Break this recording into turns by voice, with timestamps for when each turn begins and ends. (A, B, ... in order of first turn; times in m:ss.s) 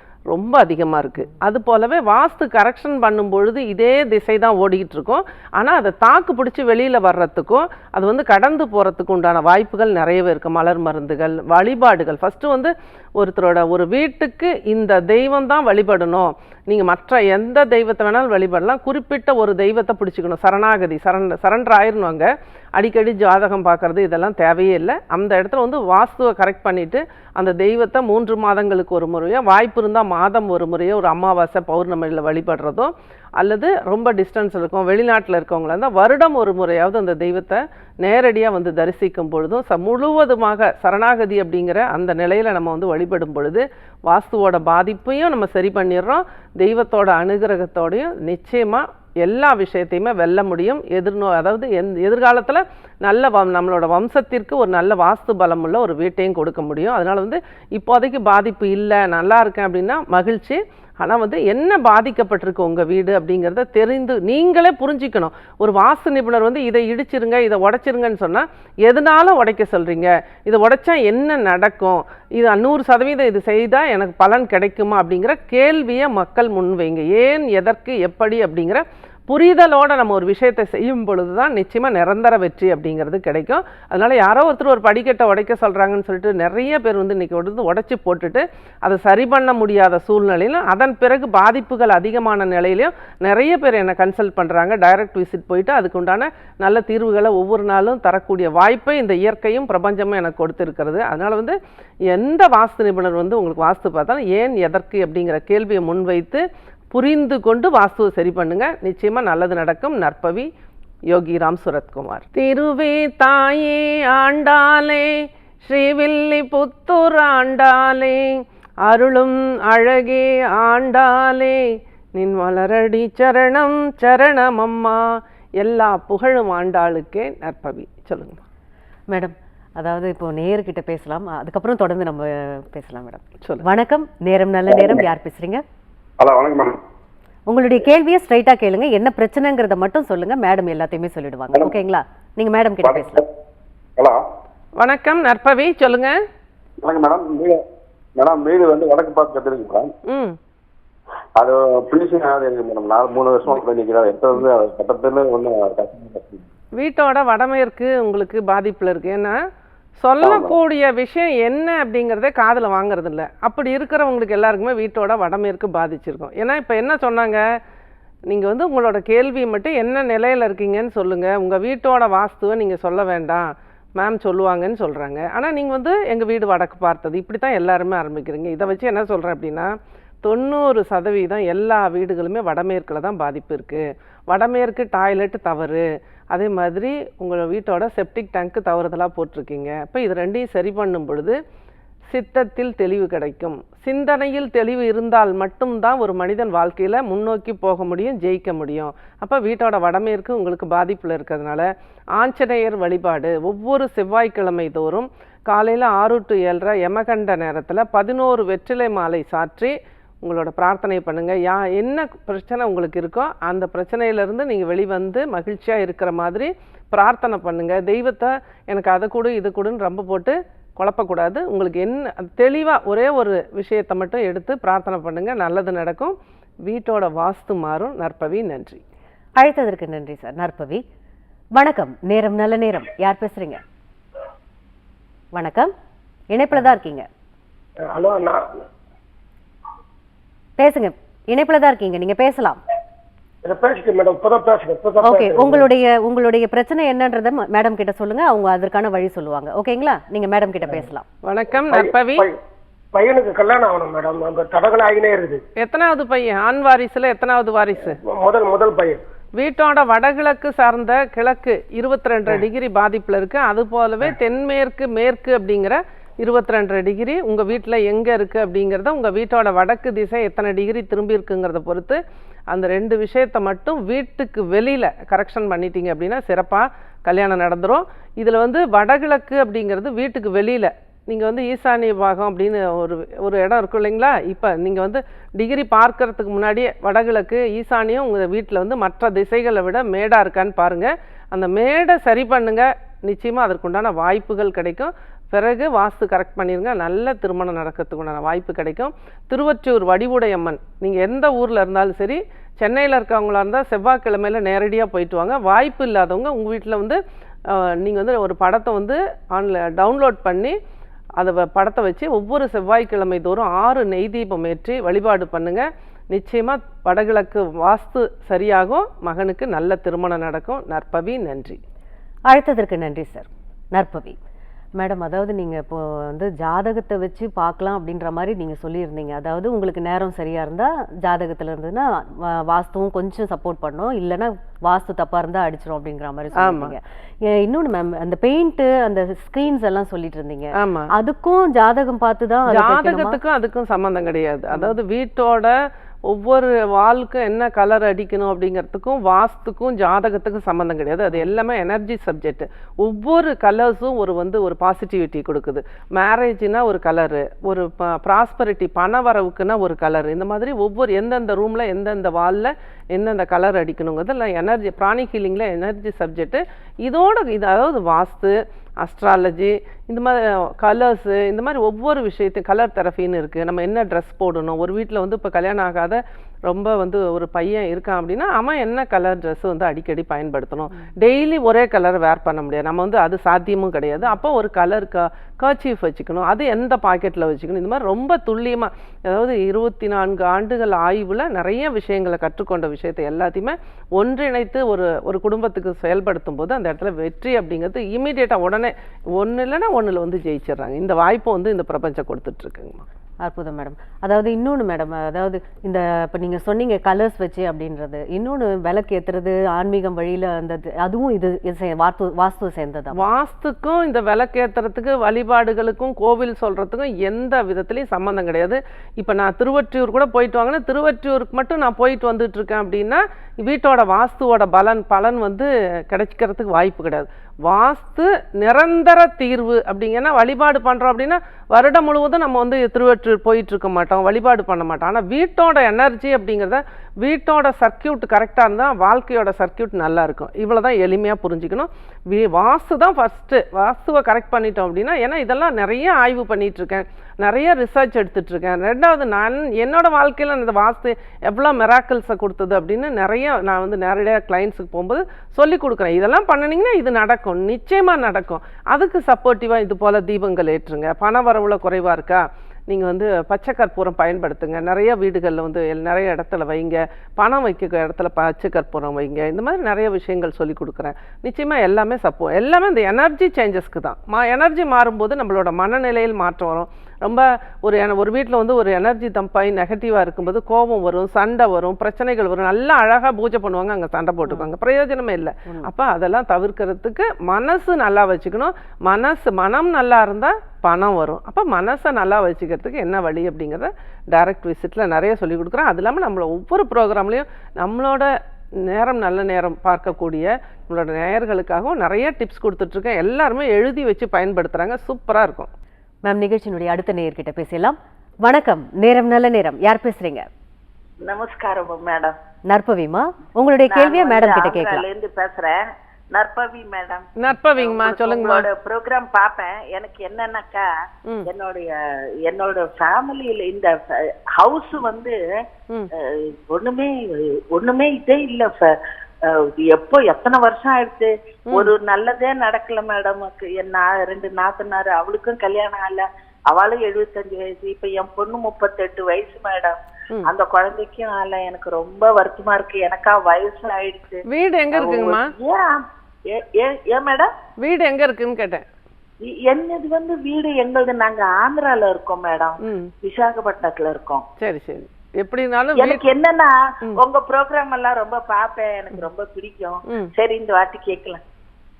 0:00.3-1:41.6 A
1:42.1-1:50.5 A
1:51.1-2:08.4 A
2:09.1-2:15.6 B
2:14.7-2:15.0 C
2:16.2-2:16.8 C
2:17.5-2:23.2 B
2:22.8-2:23.2 C
2:24.0-2:24.2 C
2:24.8-2:26.2 A
2:26.8-2:27.6 C
2:28.2-2:29.9 C
2:30.1-2:30.4 A
2:31.4-2:36.5 C
2:36.8-2:39.4 A
2:40.0-2:47.4 A
2:40.2-2:40.6 C
2:48.3-2:59.7 A
3:00.2-3:11.4 A
3:12.1-3:46.2 A
3:46.7-3:48.8 A
3:49.4-3:50.8 B
3:51.6-3:53.6 B
3:55.3-3:55.7 B
3:56.3-3:57.1 B
3:57.8-3:58.7 D
4:00.6-4:02.6 B
4:03.4-4:05.7 D
4:05.0-4:11.0 B
4:11.2-4:12.3 A
4:11.7-4:12.4 D
4:12.9-4:15.4 D
4:15.6-4:18.0 A
4:17.9-4:19.0 D
4:19.4-4:32.0 A
4:32.5-5:10.6 A
5:11.2-5:21.6 A
5:22.3-5:24.2 B
5:24.8-5:43.2 B
5:36.4-5:36.7 A
5:40.6-5:40.9 A
5:42.5-5:45.5 A
5:46.1-6:42.8 A
6:43.2-6:53.0 B
6:53.0-8:18.1 A
8:18.6-8:25.5 A
8:26.1-8:30.3 B
8:31.0-8:32.2 E
8:32.5-8:34.8 B
8:33.7-8:45.2 E
8:37.2-8:38.5 A
8:46.0-9:07.3 E
9:04.3-9:05.3 A
9:07.6-9:08.6 A
9:09.2-9:14.2 E
9:12.6-9:12.9 A
9:14.4-9:16.1 A
9:15.8-9:21.2 E